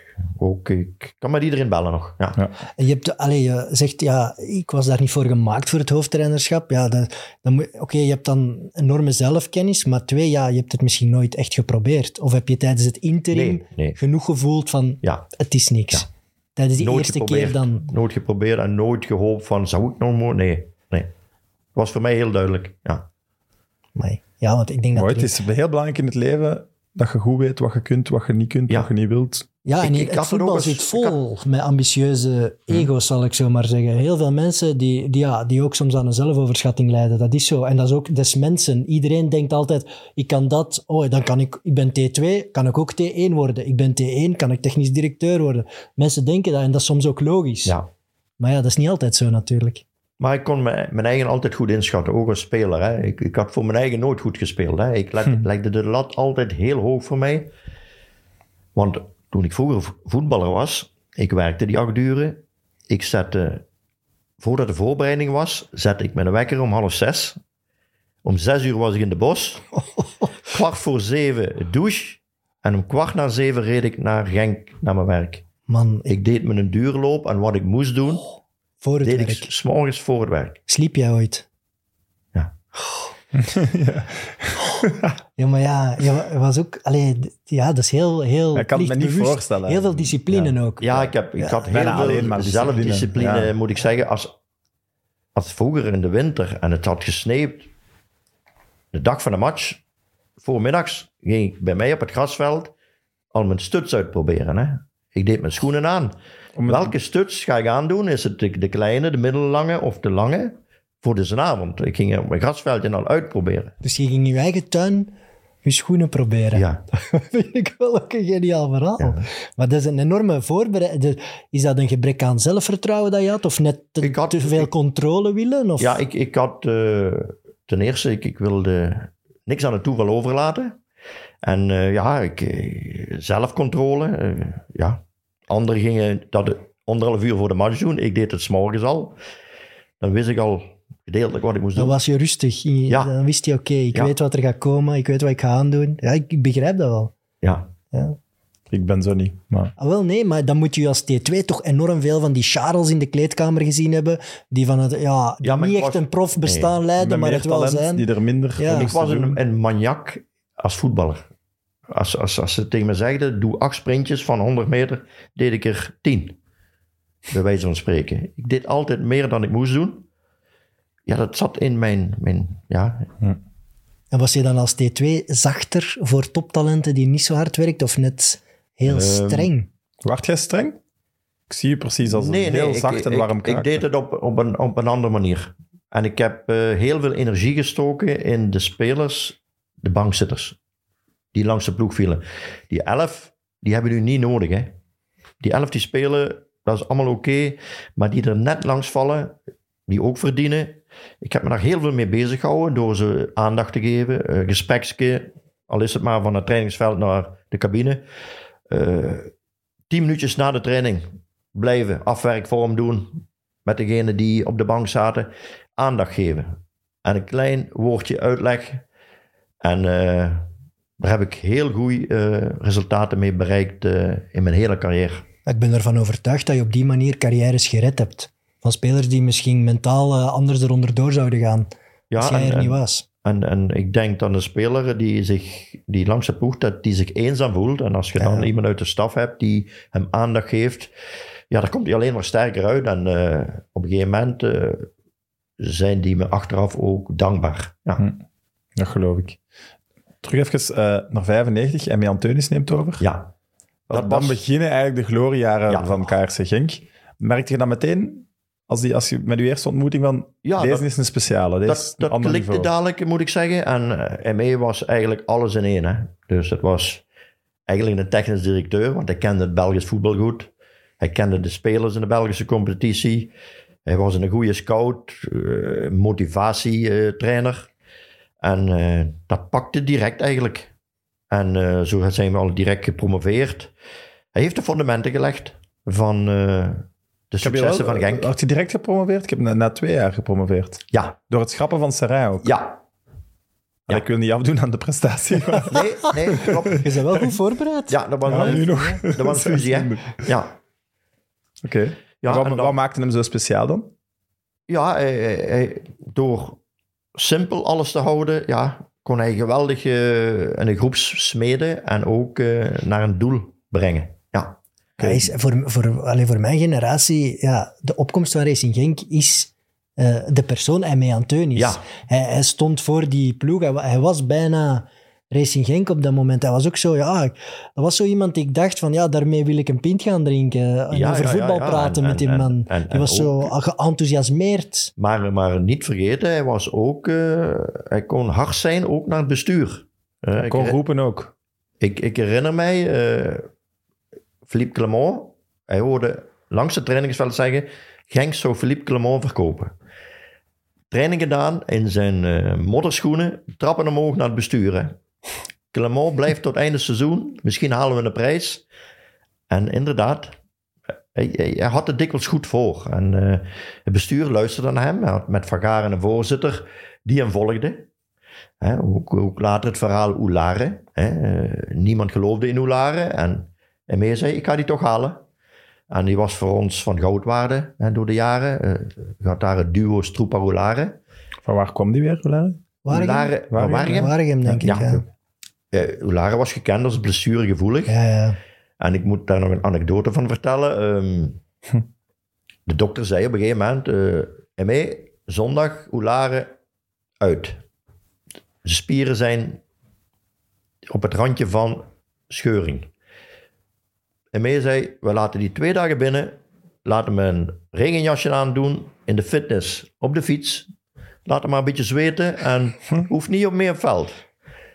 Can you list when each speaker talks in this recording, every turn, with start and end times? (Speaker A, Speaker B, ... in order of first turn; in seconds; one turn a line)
Speaker A: 0.3-2.4
Speaker B: 2.8-17.9
Speaker A: 13.3-14.0
Speaker A: 16.8-21.1
Speaker A: 21.7-23.1
Speaker B: 23.9-25.3
Speaker C: 24.9-29.4
Speaker B: 29.6-47.7
Speaker A: 29.8-31.2
Speaker B: 48.4-49.8
Speaker A: 50.2-57.5
Speaker A: 58.7-63.6
Speaker A: 64.4-67.4
Speaker A: 68.2-69.6
Speaker A: 70.5-75.5
Speaker B: 75.7-76.1
Speaker A: 76.0-78.2
Speaker B: 78.8-79.5
Speaker A: 79.0-80.6
Speaker B: 80.7-81.4
Speaker C: 83.3-85.1
Speaker B: 85.4-92.3
Speaker C: 88.5-90.5
Speaker A: 90.8-94.3
Speaker C: 91.7-93.5
Speaker A: 95.3-97.7
Speaker A: 98.9-99.8
Speaker A: 100.4-102.7
Speaker A: 103.3-106.1
Speaker C: 106.6-106.9
Speaker A: 106.7-113.7
Speaker B: 113.8-115.1
Speaker B: 115.6-126.0
Speaker A: 116.5-116.8
Speaker A: 119.0-119.3
Speaker A: 124.0-124.7
Speaker A: 125.8-130.8
Speaker A: 131.4-139.2
Speaker A: 140.0-141.9
Speaker B: 141.8-147.1
Speaker A: 147.4-147.7
Speaker B: 147.9-148.2
Speaker C: 148.7-149.7
Speaker B: 149.8-158.1
Speaker A: 155.4-156.7
Speaker C: 157.0-159.4
Speaker B: 158.6-158.9
Speaker A: 158.7-161.3
Speaker A: 161.9-166.3
Speaker A: 167.3-170.1
Speaker A: 171.1-173.1
Speaker B: 174.1-179.7
Speaker A: 178.9-179.5
Speaker C: 180.0-180.8
Speaker C: 181.5-183.8
Speaker A: 182.1-190.6
Speaker A: 191.3-194.7
Speaker A: 195.4-208.0
Speaker A: 208.7-209.3
Speaker A: 209.9-218.8
Speaker A: 219.6-220.4
Speaker A: 221.0-225.2
Speaker B: 225.4-233.0
Speaker A: 232.1-240.9
Speaker B: 238.2-238.5
Speaker A: 241.5-244.9
Speaker A: 245.6-248.0
Speaker C: 248.8-249.4
Speaker C: 250.2-253.0
Speaker A: 253.0-253.3
Speaker A: 253.9-254.4
Speaker C: 253.9-262.7
Speaker A: 255.7-256.0
Speaker A: 260.4-260.9
Speaker A: 261.6-267.0
Speaker A: 267.7-273.3
Speaker A: 273.9-277.7
Speaker A: 278.4-280.7
Speaker A: 281.3-283.7
Speaker A: 284.3-288.3
Speaker C: 287.4-292.5
Speaker A: 292.4-292.8
Speaker C: 293.9-297.3
Speaker A: 295.7-296.8
Speaker B: 296.8-299.0
Speaker A: 297.9-300.5
Speaker C: 298.2-300.2
Speaker C: 301.6-303.9
Speaker A: 302.2-302.8
Speaker A: 304.7-306.6
Speaker A: 307.1-314.6
Speaker C: 315.0-315.3
Speaker B: 315.0-334.9
Speaker A: 321.6-321.8
Speaker A: 330.9-333.5
Speaker A: 335.0-340.8
Speaker C: 340.4-341.3
Speaker A: 341.8-343.4
Speaker A: 344.5-349.7
Speaker A: 350.9-354.9
Speaker A: 355.7-358.6
Speaker A: 359.5-360.4
Speaker A: 361.1-367.9
Speaker A: 368.6-375.2
Speaker A: 375.9-381.0
Speaker C: 381.4-382.6
Speaker B: 382.9-385.0
Speaker A: 382.9-385.0
Speaker C: 383.5-384.6
Speaker A: 385.7-387.9
Speaker B: 387.9-388.4
Speaker A: 388.8-391.4
Speaker A: 392.6-396.5
Speaker A: 397.2-397.6
Speaker A: 398.6-399.6
Speaker A: 400.9-402.9
Speaker A: 404.3-410.7
Speaker A: 411.2-414.2